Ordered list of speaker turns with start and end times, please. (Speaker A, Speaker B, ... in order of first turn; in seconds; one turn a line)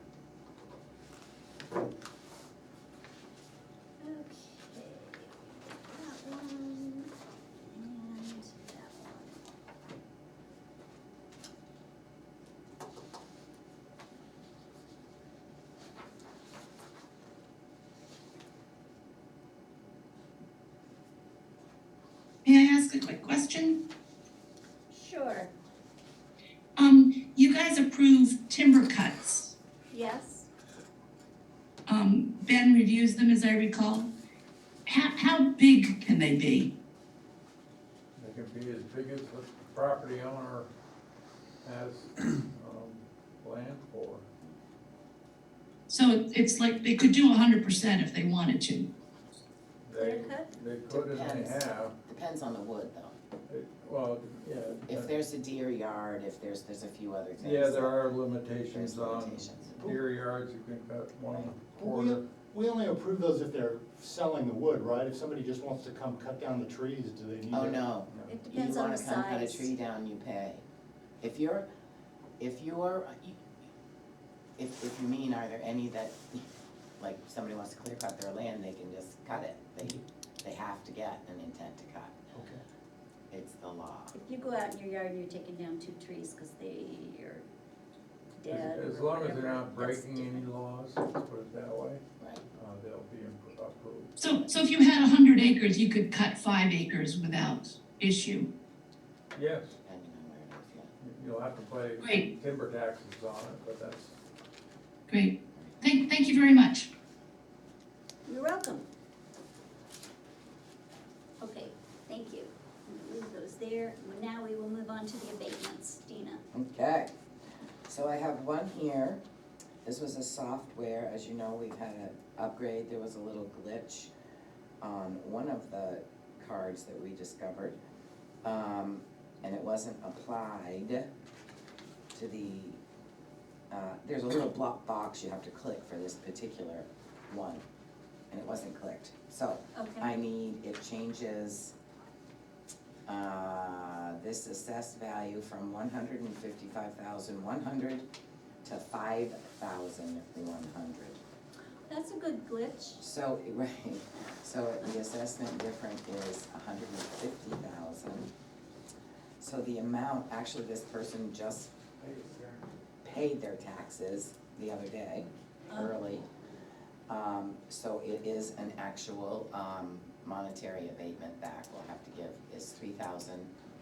Speaker A: 4.0-9.4
Speaker B: 22.4-23.8
Speaker A: 24.9-25.5
Speaker B: 26.8-29.5
Speaker A: 29.9-30.5
Speaker B: 31.9-34.1
Speaker B: 34.9-36.7
Speaker C: 38.2-40.7
Speaker C: 41.6-44.3
Speaker B: 45.9-48.9
Speaker C: 49.9-51.9
Speaker A: 49.9-50.5
Speaker D: 50.9-53.1
Speaker C: 53.5-55.1
Speaker D: 54.9-58.0
Speaker C: 57.4-62.2
Speaker D: 58.7-59.8
Speaker E: 61.7-67.8
Speaker D: 67.5-70.6
Speaker A: 68.2-69.7
Speaker D: 71.2-71.7
Speaker D: 72.4-73.4
Speaker D: 74.6-76.4
Speaker D: 77.0-82.2
Speaker E: 82.3-82.6
Speaker D: 83.3-84.1
Speaker A: 84.1-87.4
Speaker A: 88.4-90.4
Speaker C: 88.5-92.0
Speaker D: 92.2-92.4
Speaker C: 92.5-94.1
Speaker B: 94.2-98.5
Speaker C: 99.3-99.8
Speaker D: 99.8-100.9
Speaker C: 101.0-104.2
Speaker B: 102.0-102.3
Speaker B: 105.1-106.9
Speaker A: 108.2-108.8
Speaker A: 111.4-116.4
Speaker D: 116.5-117.1
Speaker D: 117.8-119.2
Speaker D: 119.8-124.1
Speaker D: 124.8-127.8
Speaker D: 128.4-131.1
Speaker D: 132.1-132.8
Speaker D: 133.7-137.6
Speaker D: 138.3-141.7
Speaker A: 139.8-140.1
Speaker D: 143.1-148.0
Speaker D: 148.6-151.2
Speaker A: 151.9-153.0
Speaker D: 153.0-158.3
Speaker D: 159.4-161.7
Speaker C: 162.0-162.6
Speaker D: 163.1-166.2
Speaker D: 167.1-173.5